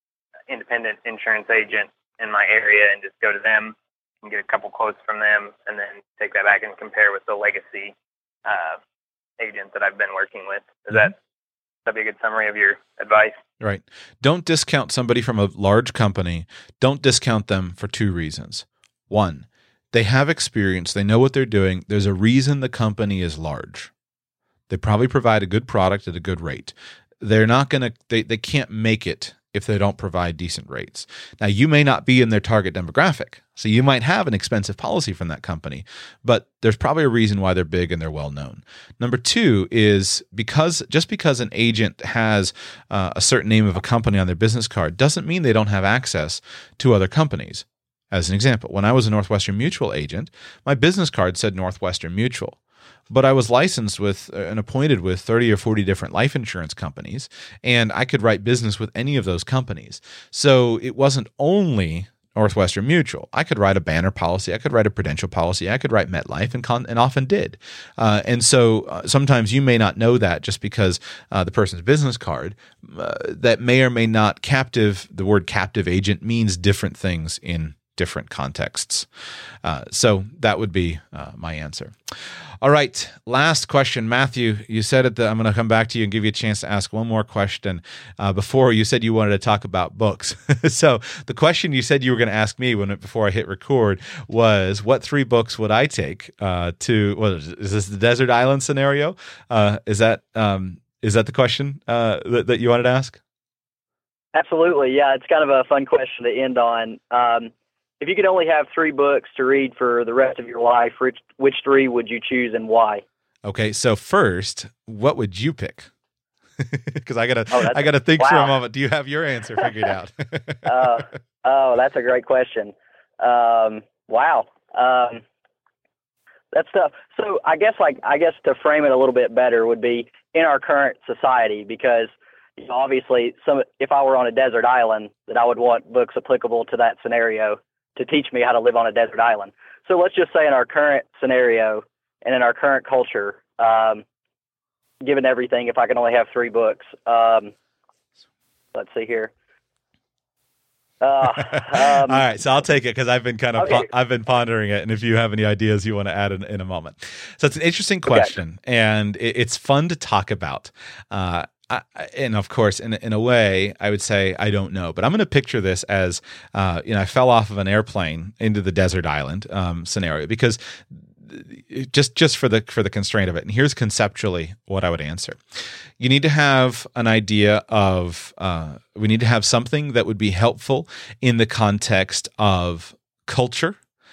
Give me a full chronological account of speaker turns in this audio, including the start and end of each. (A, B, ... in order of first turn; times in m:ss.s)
0:00.5-0:07.9 A
0:08.4-0:08.8 A
0:09.4-0:11.2 A
0:11.8-0:13.4 A
0:13.6-0:23.9 B
0:24.7-0:52.6 B
0:53.1-1:19.1 B
1:19.6-1:21.9 B
1:22.6-1:43.2 B
1:44.3-1:53.0 C
1:53.4-1:55.9 B
1:56.6-2:00.9 B
1:57.5-1:58.5 C
2:00.6-2:05.2 C
2:06.5-2:24.0 C
2:25.0-2:27.5 C
2:28.7-2:29.3 C
2:31.0-2:32.2 C
2:31.4-2:55.4 B
2:33.6-2:33.8 C
2:56.0-3:03.8 B